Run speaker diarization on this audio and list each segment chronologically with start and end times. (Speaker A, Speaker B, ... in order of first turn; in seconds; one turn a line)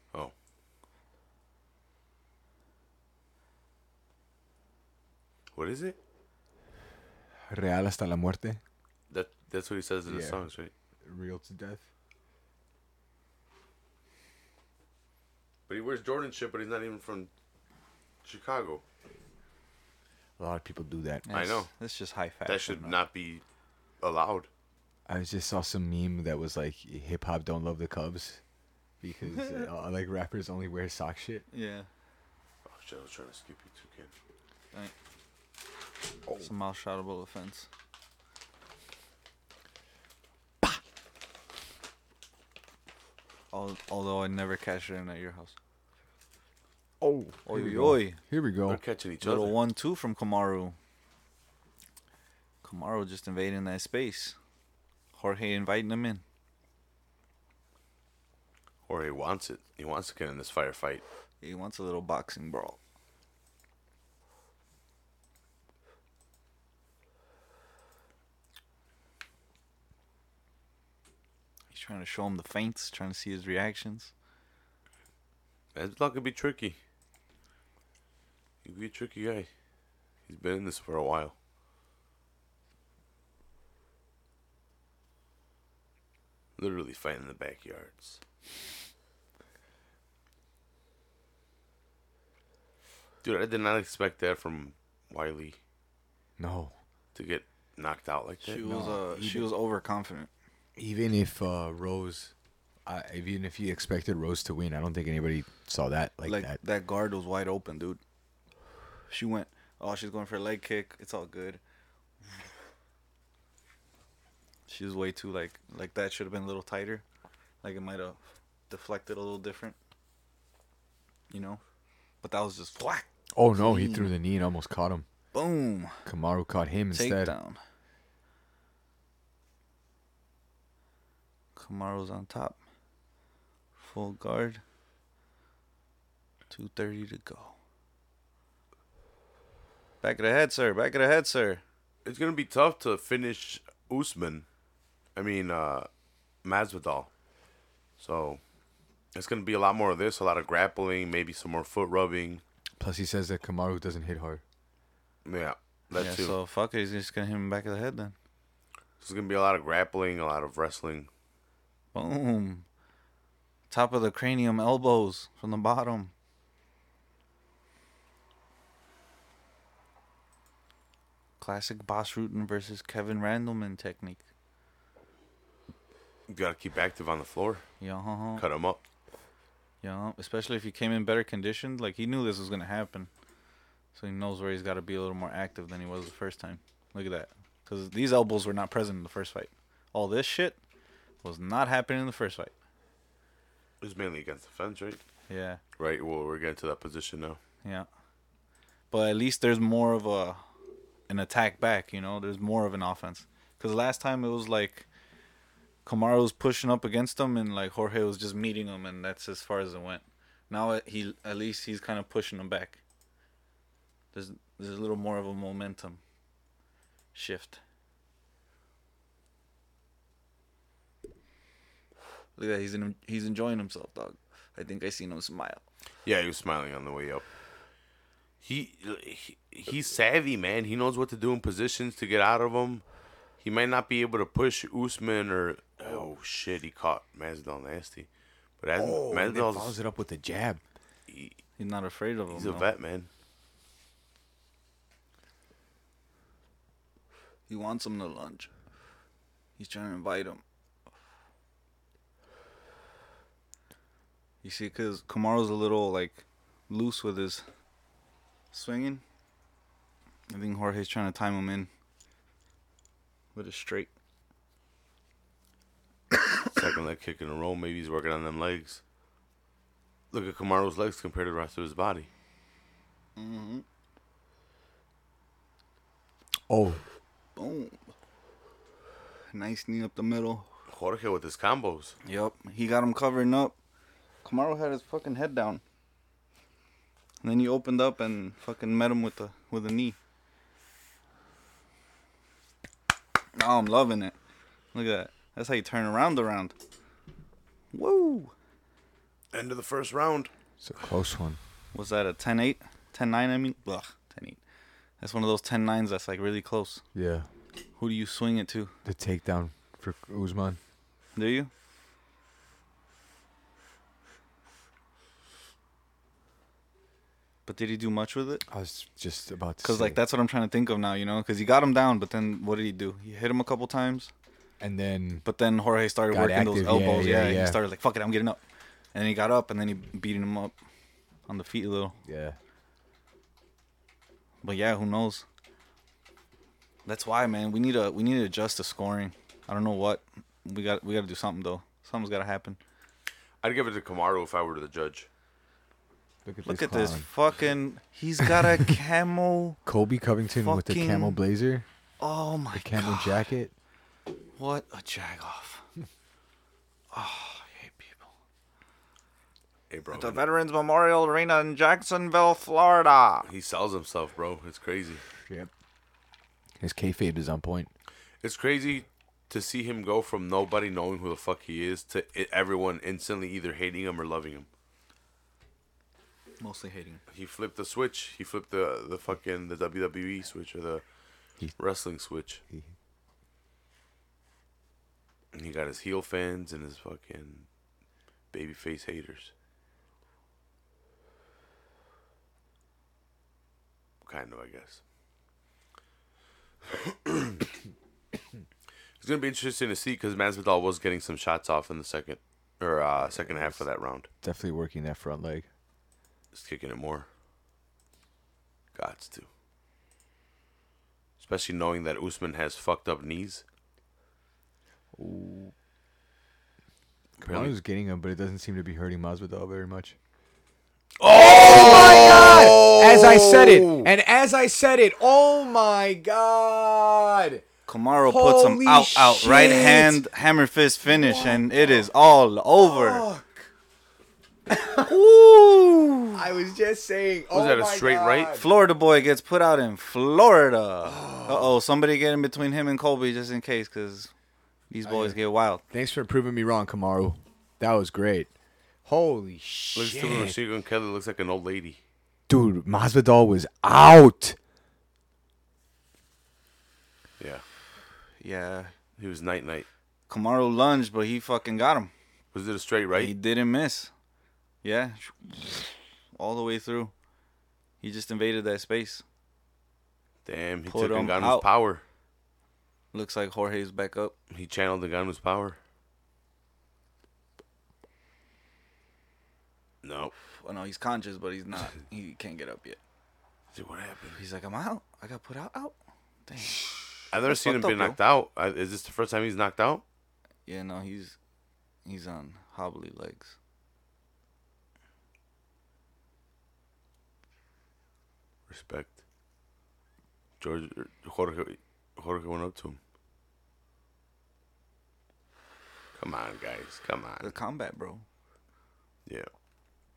Speaker A: 5.5-6.0
Speaker B: 7.5-8.6
Speaker A: 9.1-10.7
Speaker B: 10.1-10.4
Speaker B: 11.0-11.8
Speaker A: 15.7-17.3
Speaker A: 18.2-18.8
Speaker B: 20.4-21.3
Speaker C: 21.2-23.0
Speaker A: 21.3-21.7
Speaker A: 22.5-23.4
Speaker A: 24.0-24.5
Speaker B: 25.1-28.4
Speaker B: 29.0-31.5
Speaker C: 31.5-31.9
Speaker A: 32.6-34.1
Speaker C: 36.4-37.7
Speaker C: 43.5-45.5
Speaker B: 47.0-48.8
Speaker C: 47.5-48.2
Speaker A: 48.7-49.6
Speaker C: 49.2-50.8
Speaker C: 52.6-54.4
Speaker C: 55.1-56.2
Speaker A: 58.9-61.0
Speaker C: 61.4-62.8
Speaker C: 71.7-74.1
Speaker A: 75.8-76.8
Speaker A: 78.6-79.5
Speaker A: 80.3-81.3
Speaker A: 86.6-88.2
Speaker A: 93.2-95.6
Speaker B: 96.4-96.8
Speaker A: 97.2-98.6
Speaker C: 98.4-100.3
Speaker B: 98.6-99.5
Speaker B: 100.8-102.3
Speaker B: 102.8-106.6
Speaker C: 106.2-108.0
Speaker C: 109.1-111.6
Speaker C: 114.7-117.0
Speaker C: 117.6-119.8
Speaker C: 121.3-121.6
Speaker C: 122.2-124.1
Speaker B: 123.3-125.1
Speaker C: 125.3-126.0
Speaker B: 126.0-127.3
Speaker C: 126.9-127.6
Speaker C: 131.6-132.6
Speaker C: 133.8-134.6
Speaker C: 136.5-137.6
Speaker C: 140.0-141.6
Speaker A: 142.1-144.4
Speaker A: 145.2-145.9
Speaker A: 146.4-147.1
Speaker A: 148.0-148.4
Speaker A: 149.1-152.4
Speaker B: 152.8-154.4
Speaker A: 155.2-156.3
Speaker C: 155.9-158.1
Speaker A: 159.0-161.1
Speaker C: 161.9-162.7
Speaker C: 163.7-166.1
Speaker C: 171.4-174.2
Speaker A: 176.3-177.7
Speaker C: 177.8-178.4
Speaker A: 178.4-178.8
Speaker C: 179.8-183.1
Speaker C: 183.9-190.6
Speaker C: 191.2-192.5
Speaker A: 193.8-195.0
Speaker C: 195.3-195.6
Speaker A: 195.8-197.4
Speaker C: 198.9-200.4
Speaker C: 201.1-204.9
Speaker C: 205.8-212.8
Speaker C: 214.1-216.0
Speaker C: 217.1-217.6
Speaker C: 222.4-225.6
Speaker A: 226.1-227.2
Speaker A: 228.4-232.8
Speaker A: 233.4-238.1
Speaker B: 235.8-236.1
Speaker A: 238.6-239.8
Speaker B: 238.8-240.6
Speaker A: 241.1-241.4
Speaker C: 241.6-242.7
Speaker A: 242.3-243.1
Speaker C: 247.5-248.5
Speaker C: 249.6-250.4
Speaker C: 254.4-257.5
Speaker C: 258.5-259.0
Speaker C: 260.3-261.7
Speaker C: 263.4-263.9
Speaker A: 266.5-268.8
Speaker A: 270.1-272.1
Speaker C: 273.2-273.6
Speaker B: 276.5-276.8
Speaker C: 277.4-277.8
Speaker C: 279.3-280.5
Speaker A: 280.7-282.0
Speaker C: 282.1-283.6
Speaker C: 284.2-285.6
Speaker C: 287.2-290.0
Speaker C: 293.4-294.2
Speaker C: 294.7-296.6
Speaker C: 297.7-298.3
Speaker A: 299.3-300.3
Speaker B: 300.6-301.4
Speaker C: 301.7-304.4
Speaker C: 305.0-306.8
Speaker B: 306.9-307.3
Speaker C: 307.8-308.8
Speaker B: 308.9-310.6
Speaker C: 311.1-311.5
Speaker C: 317.5-318.4
Speaker B: 318.5-320.0
Speaker C: 319.6-324.1
Speaker B: 324.6-325.2
Speaker C: 325.2-328.4
Speaker B: 326.1-327.6
Speaker C: 328.9-330.5
Speaker C: 331.3-332.0
Speaker B: 332.0-332.4
Speaker C: 334.4-335.2
Speaker C: 336.9-342.6
Speaker A: 343.4-345.1
Speaker B: 346.2-347.1
Speaker C: 346.4-349.6
Speaker B: 348.2-348.7
Speaker B: 349.7-351.7
Speaker C: 350.4-351.2
Speaker C: 352.0-353.3
Speaker B: 352.5-353.5
Speaker C: 354.4-355.7
Speaker C: 356.9-358.1
Speaker A: 359.7-360.2
Speaker C: 359.9-363.3
Speaker A: 363.3-365.0
Speaker B: 366.6-367.7
Speaker A: 368.2-374.5
Speaker C: 376.4-377.0
Speaker A: 377.1-380.8
Speaker A: 381.6-382.4
Speaker A: 385.3-387.5
Speaker A: 388.3-389.3
Speaker A: 394.0-394.8
Speaker A: 396.7-397.5
Speaker A: 399.0-404.1
Speaker B: 403.1-403.6
Speaker B: 404.2-405.5
Speaker A: 406.3-407.1
Speaker A: 408.8-409.3
Speaker A: 411.2-413.4
Speaker B: 415.0-415.5
Speaker A: 417.2-417.5
Speaker B: 417.2-420.0
Speaker A: 421.0-423.9
Speaker B: 421.1-427.5
Speaker C: 427.7-433.1
Speaker B: 428.0-430.1
Speaker B: 430.9-431.9
Speaker B: 432.6-433.5
Speaker B: 434.5-435.1
Speaker C: 434.7-436.2
Speaker B: 436.1-438.5
Speaker A: 437.3-438.4
Speaker C: 438.4-444.1
Speaker B: 440.8-441.5
Speaker C: 444.7-445.6
Speaker B: 444.8-445.2
Speaker B: 445.7-448.3
Speaker B: 448.9-450.4
Speaker A: 449.8-451.8
Speaker B: 452.3-454.4
Speaker C: 458.2-458.7
Speaker A: 459.0-459.7
Speaker C: 460.1-461.9
Speaker A: 462.3-463.1
Speaker C: 462.9-463.9
Speaker C: 464.6-466.9
Speaker C: 467.8-469.0
Speaker A: 470.2-471.8
Speaker C: 470.7-471.5
Speaker C: 472.9-474.1
Speaker A: 474.3-475.6
Speaker A: 479.8-480.1
Speaker C: 480.2-482.8
Speaker A: 483.5-484.2
Speaker C: 484.1-488.0
Speaker A: 487.1-489.8
Speaker C: 490.5-491.2
Speaker C: 491.9-493.4
Speaker A: 498.5-499.0
Speaker A: 500.4-502.8
Speaker A: 505.9-507.3
Speaker C: 507.2-508.0